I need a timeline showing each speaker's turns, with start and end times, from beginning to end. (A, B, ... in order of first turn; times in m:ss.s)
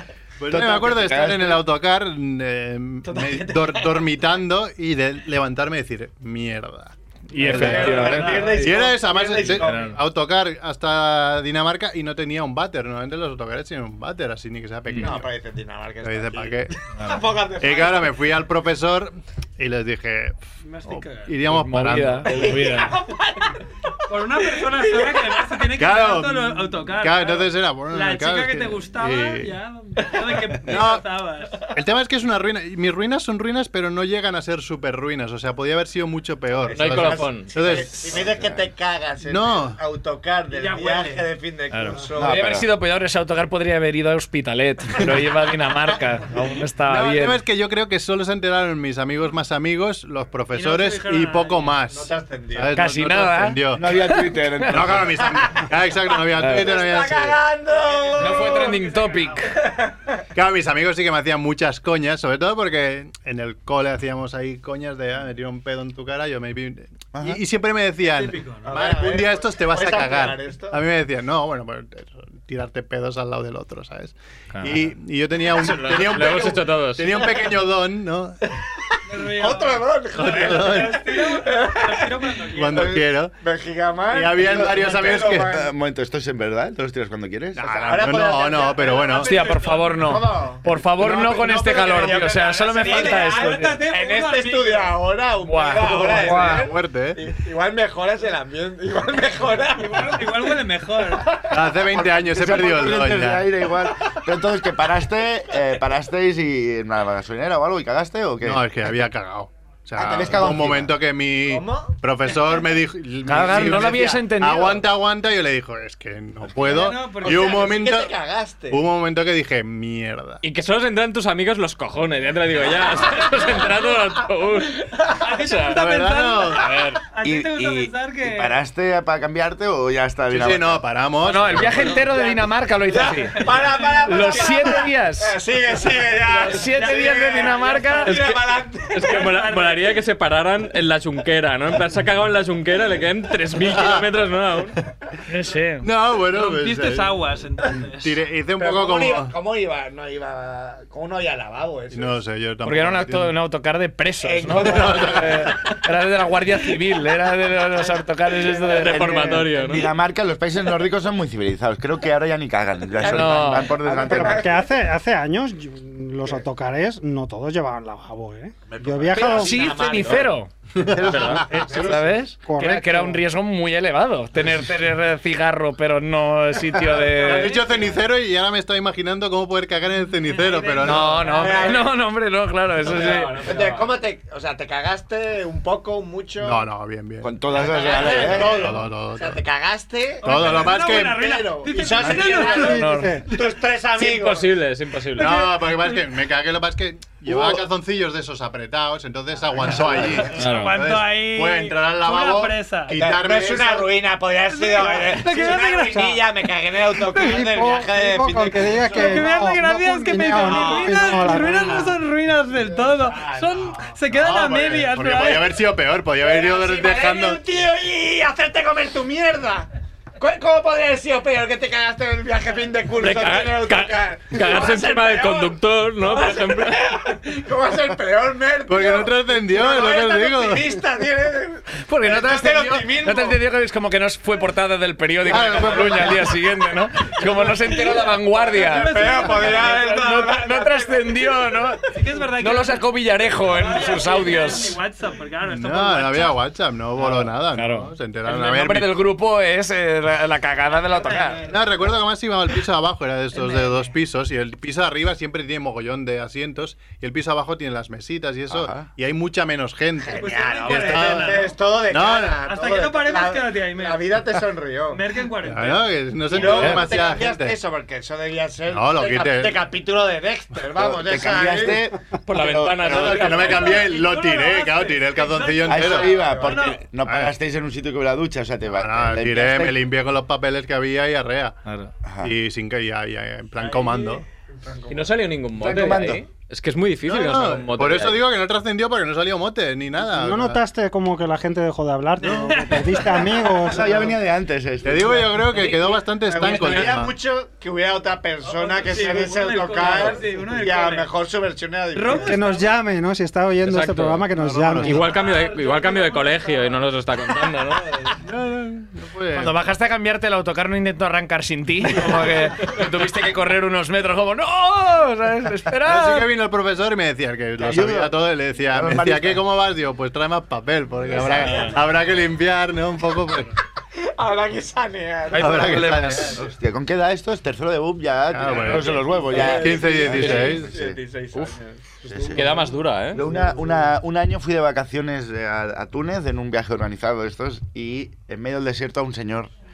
0:00.4-0:15.3 A
0:00.5-0:01.6 B
0:03.3-0:03.6 C
0:07.3-0:08.6 D
0:07.4-0:10.0 E
0:07.7-0:08.7 C
0:15.0-0:18.2 E
0:16.0-0:16.8 A
0:17.6-0:22.4 A
0:20.6-0:21.4 C
0:21.4-0:22.9 D
0:22.3-0:25.6 E
0:24.1-0:31.7 C
0:25.8-0:29.6 A
0:30.1-0:30.5 E
0:30.6-0:31.1 A
0:31.7-0:38.2 A
0:36.6-0:42.5 E
0:36.7-0:37.5 F
0:38.1-0:38.7 B
0:39.2-0:39.8 A
0:40.5-0:41.3 C
0:41.7-0:47.4 D
0:42.2-0:42.7 B
0:46.9-0:53.9 A
0:50.5-0:51.8 C
0:51.9-0:52.8 E
0:52.7-0:54.8 D
0:53.7-0:55.2 B
0:54.7-0:57.4 A
0:55.2-0:58.8 E
0:56.4-0:56.6 D
0:57.8-0:59.6 C
0:58.2-0:59.5 D
0:59.5-1:00.1 E
1:00.3-1:18.4 A
1:07.1-1:07.4 B
1:08.0-1:08.8 C
1:08.6-1:10.8 E
1:14.5-1:14.8 D
1:15.7-1:17.3 F
1:19.1-1:23.0 C
1:19.3-1:25.7 E
1:20.2-1:21.0 A
1:22.5-1:23.4 A
1:24.1-1:25.5 A
1:25.1-1:27.8 B
1:27.6-1:29.4 A
1:27.6-1:43.0 E
1:29.0-1:30.0 C
1:29.2-1:33.8 D
1:31.8-1:35.0 C
1:35.4-1:36.7 D
1:35.8-1:37.2 A
1:39.7-1:41.5 C
1:41.5-1:43.5 A
1:42.1-1:48.6 B
1:48.4-1:58.2 A
1:50.0-1:50.9 E
1:50.1-1:50.8 B
1:51.5-1:51.9 E
1:53.3-1:54.8 D
1:56.6-1:57.6 C
1:57.2-1:58.8 E
1:58.7-2:00.4 A
2:00.4-2:05.8 F
2:05.0-2:05.2 E
2:05.1-2:08.6 C
2:05.7-2:06.8 A
2:06.5-2:07.0 F
2:07.2-2:10.8 B
2:10.3-2:12.0 A
2:11.2-2:13.5 D
2:11.6-2:19.1 E
2:11.8-2:12.4 C
2:13.3-2:14.9 C
2:14.0-2:15.4 D
2:16.3-2:18.3 D
2:16.6-2:18.3 C
2:18.9-2:24.8 F
2:19.0-2:20.0 C
2:23.6-2:24.1 A
2:25.3-2:25.9 D
2:25.8-2:29.4 A
2:26.2-2:28.2 C
2:28.6-2:32.2 E
2:31.9-2:33.3 A
2:32.6-2:39.3 D
2:34.2-2:35.7 E
2:34.5-2:35.5 A
2:38.5-2:39.8 E
2:38.6-2:39.9 F
2:38.9-2:44.5 B
2:42.9-2:44.7 E
2:43.0-2:43.7 D
2:43.9-2:49.8 G
2:48.7-2:50.3 E
2:49.2-2:50.5 D
2:50.8-2:51.4 A
2:51.0-2:51.4 F
2:51.0-2:53.2 G
2:51.2-2:57.6 D
2:57.2-2:57.9 E
2:57.2-3:01.5 A
3:00.2-3:01.9 C
3:00.8-3:03.4 D
3:01.3-3:01.9 E
3:02.8-3:06.6 E
3:03.0-3:03.9 F
3:06.4-3:07.3 A
3:07.2-3:08.7 B
3:07.5-3:14.5 E
3:08.1-3:09.4 A
3:10.2-3:12.9 C
3:10.2-3:11.2 A
3:12.0-3:13.3 G
3:12.5-3:13.2 D
3:14.0-3:15.5 F
3:15.2-3:23.9 A
3:19.8-3:20.2 E
3:20.2-3:23.0 C
3:20.3-3:20.7 D
3:22.9-3:29.3 E
3:24.5-3:26.2 C
3:27.1-3:32.0 G
3:28.8-3:35.5 C
3:30.4-3:31.6 E
3:32.6-3:33.9 E
3:34.1-3:37.4 A
3:36.2-3:53.4 E
3:43.0-3:46.9 F
3:48.7-3:50.8 A
3:51.8-4:01.8 D
3:55.2-3:56.3 A
3:55.3-3:56.0 E
3:58.4-4:01.5 E
3:58.4-4:00.0 C
4:01.9-4:02.9 C
4:02.4-4:04.8 D
4:03.4-4:06.4 C
4:05.4-4:09.0 A
4:07.0-4:11.4 D
4:11.0-4:11.5 C
4:11.5-4:22.4 A
4:13.3-4:13.9 C
4:18.5-4:18.9 B
4:20.0-4:25.0 E
4:20.1-4:21.6 C
4:22.4-4:24.1 C
4:24.9-4:26.4 C
4:25.4-4:27.6 A
4:26.3-4:31.9 E
4:28.7-4:29.6 A
4:30.8-4:33.4 B
4:32.3-4:33.8 F
4:32.8-4:36.3 A
4:33.4-4:36.9 C
4:35.6-4:39.8 B
4:35.8-4:36.7 E
4:37.0-4:37.3 A
4:38.7-4:41.6 A
4:41.7-4:41.9 D
4:42.1-4:42.3 B
4:42.2-4:44.2 A
4:43.7-4:44.2 C
4:44.6-4:45.2 E
4:44.9-4:48.2 F
4:45.6-4:46.2 B
4:47.0-4:50.6 A
4:50.0-4:54.2 G
4:52.2-4:53.7 C
4:52.2-4:52.8 A
4:53.6-4:55.4 B
4:54.8-4:57.2 A
4:55.0-5:02.6 E
4:58.4-5:01.1 C
5:01.9-5:02.7 C
5:02.1-5:05.1 G
5:03.6-5:08.2 F
5:04.3-5:05.1 A
5:05.0-5:06.8 C
5:08.2-5:09.5 A
5:09.3-5:16.3 D
5:15.8-5:23.6 A
5:17.6-5:18.2 B
5:18.7-5:19.4 B
5:21.1-5:21.8 E
5:24.0-5:26.3 E
5:25.3-5:26.4 A
5:25.4-5:26.2 D
5:26.4-5:31.0 B
5:28.3-5:30.7 A
5:28.5-5:32.4 E
5:32.1-5:32.5 B
5:32.1-5:32.6 G
5:32.3-5:33.2 F
5:33.1-5:39.5 B
5:33.2-5:33.7 E